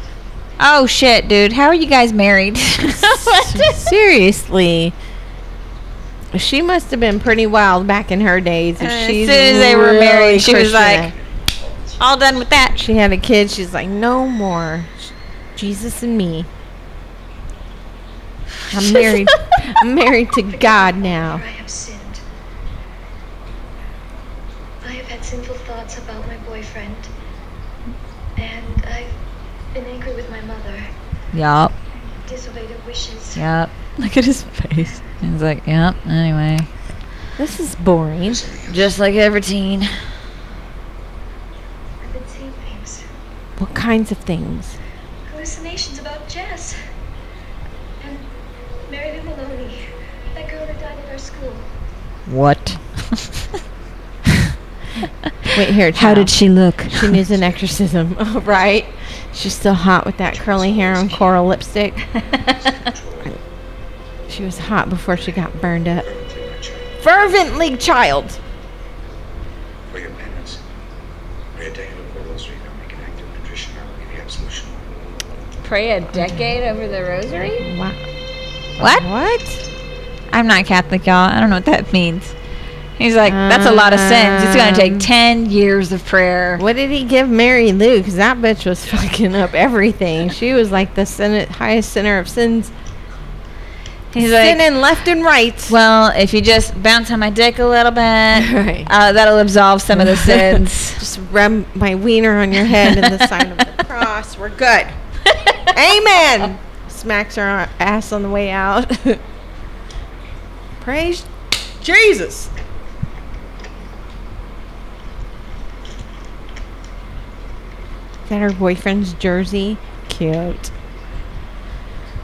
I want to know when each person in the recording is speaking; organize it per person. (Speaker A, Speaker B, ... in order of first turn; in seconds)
Speaker A: 0.6-3.9, 8.8-11.1, 12.0-12.8, 18.9-19.5, 31.3-31.7, 33.4-36.7, 38.7-40.0, 52.3-53.3, 55.9-57.2, 75.6-77.6, 78.8-79.1, 80.3-82.3, 83.0-86.6, 94.1-94.7, 95.7-101.0, 105.3-105.7
Speaker B: 2.9-5.0, 6.3-11.1, 12.8-16.5, 18.7-21.4, 37.4-38.5, 43.6-44.8, 55.5-62.0, 64.3-66.1, 67.0-68.4, 77.5-78.0, 78.8-79.6, 83.2-85.1, 86.6-92.7, 94.2-95.8, 98.3-98.9, 99.9-105.0, 105.7-109.2, 110.8-112.5, 118.3-120.7
Speaker C: 11.1-12.7, 38.3-38.9, 60.3-61.4, 62.4-63.4, 65.2-65.4, 66.0-67.3, 69.9-70.6, 71.5-75.5
Speaker D: 20.5-22.2, 24.8-27.1, 28.4-29.2, 29.7-30.9, 32.0-33.4, 42.0-43.1, 45.3-46.8, 48.0-48.3, 48.9-51.7